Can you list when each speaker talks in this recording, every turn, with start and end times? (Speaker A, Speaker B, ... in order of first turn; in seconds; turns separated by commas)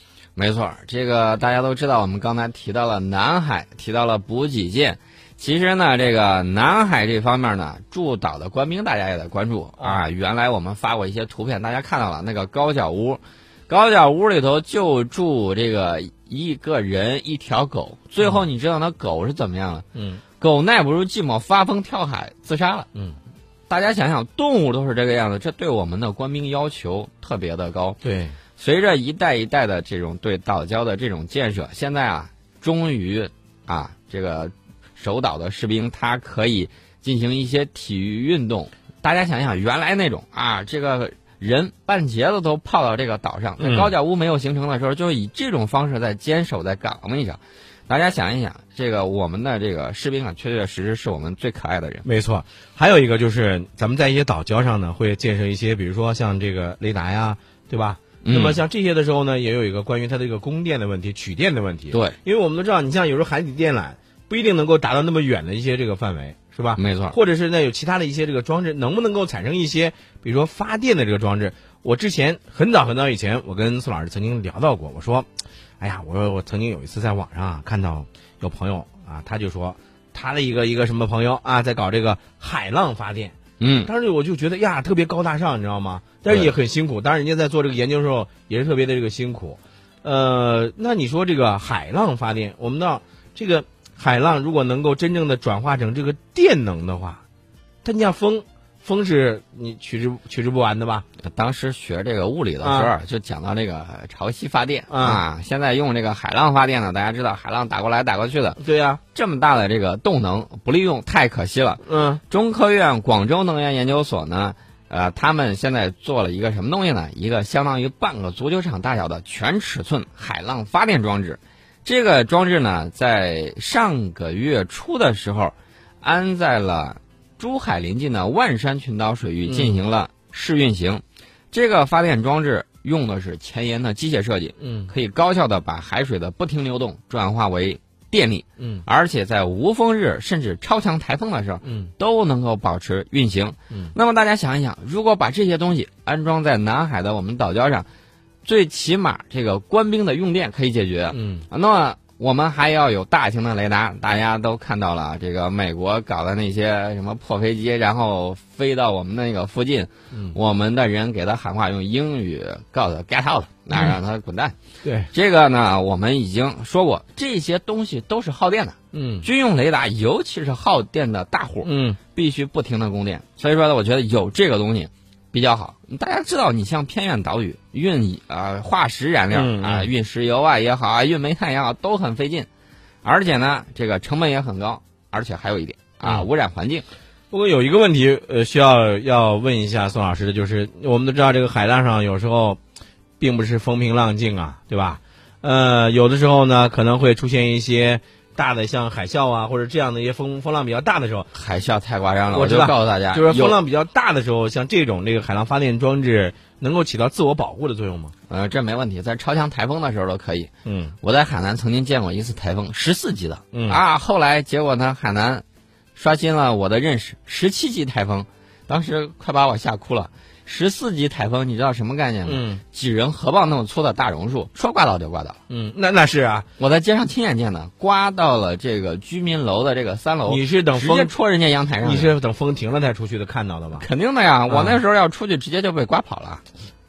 Speaker A: 0.3-19.9, Speaker B: 19.9-20.2, Speaker A: 20.4-22.9, Speaker A: 23.7-28.0, Speaker B: 28.0-28.4, Speaker A: 28.6-52.1, Speaker B: 43.6-43.9, Speaker B: 52.0-75.3, Speaker A: 58.2-58.6, Speaker A: 61.9-62.1, Speaker A: 66.8-67.2, Speaker B: 75.8-97.2, Speaker A: 83.6-83.9, Speaker A: 86.3-86.5, Speaker B: 97.8-101.0, Speaker A: 101.2-108.6, Speaker B: 102.6-102.9, Speaker B: 104.9-105.2, Speaker B: 108.6-109.0, Speaker A: 109.1-147.9, Speaker B: 111.8-112.2, Speaker B: 129.4-129.8, Speaker B: 134.6-134.9, Speaker B: 138.6-138.9, Speaker B: 141.6-141.9, Speaker A: 148.4-164.6, Speaker B: 151.1-151.4, Speaker B: 160.1-160.4, Speaker B: 163.7-164.0, Speaker B: 164.8-165.1, Speaker A: 165.1-182.5, Speaker B: 168.9-169.3, Speaker B: 171.6-172.0, Speaker B: 179.3-179.9, Speaker A: 183.0-186.8, Speaker B: 187.3-192.6, Speaker B: 193.2-201.3, Speaker A: 201.3-203.6, Speaker B: 202.3-208.1, Speaker A: 208.3-210.5, Speaker B: 210.6-210.9, Speaker A: 211.0-215.4, Speaker B: 213.5-213.8, Speaker A: 215.9-225.4, Speaker B: 222.2-222.6, Speaker B: 225.5-226.5, Speaker A: 226.6-232.1, Speaker B: 230.2-231.1, Speaker B: 231.8-233.9, Speaker A: 233.8-236.4, Speaker B: 234.5-234.8